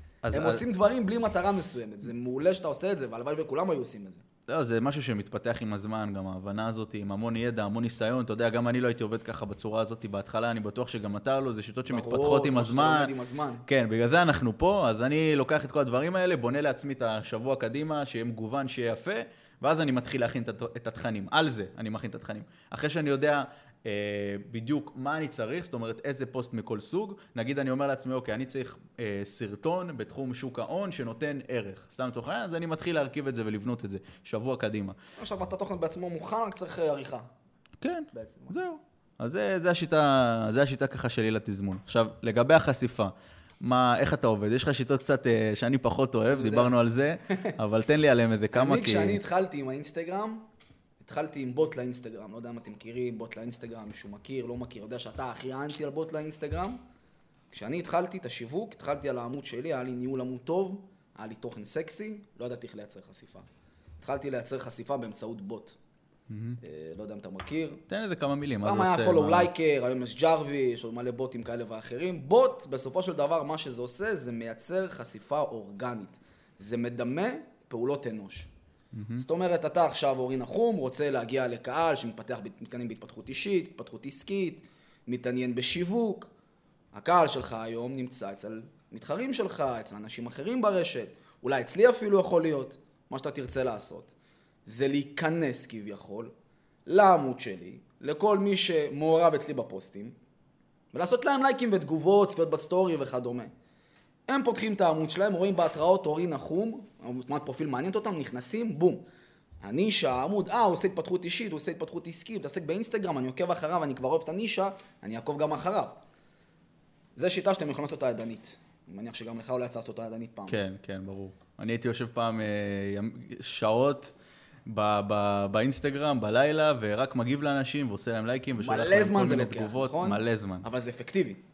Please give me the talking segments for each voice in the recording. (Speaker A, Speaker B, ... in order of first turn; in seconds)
Speaker A: 0.2-0.6, 4.5-13.1, 13.7-35.0, 37.8-49.2, 66.3-66.6, 67.9-69.5, 78.9-79.2, 120.5-124.1, 124.7-130.7
Speaker B: 0.3-4.2, 11.9-13.6, 35.2-37.3, 38.1-38.5, 46.3-46.7, 48.5-50.4, 51.0-56.8, 57.5-63.5, 64.0-65.8, 66.6-67.8, 68.6-78.5, 79.2-86.3, 86.9-94.1, 94.7-96.3, 96.8-100.2, 100.9-103.5, 104.3-109.0, 109.6-116.0, 117.2-120.6, 128.6-131.4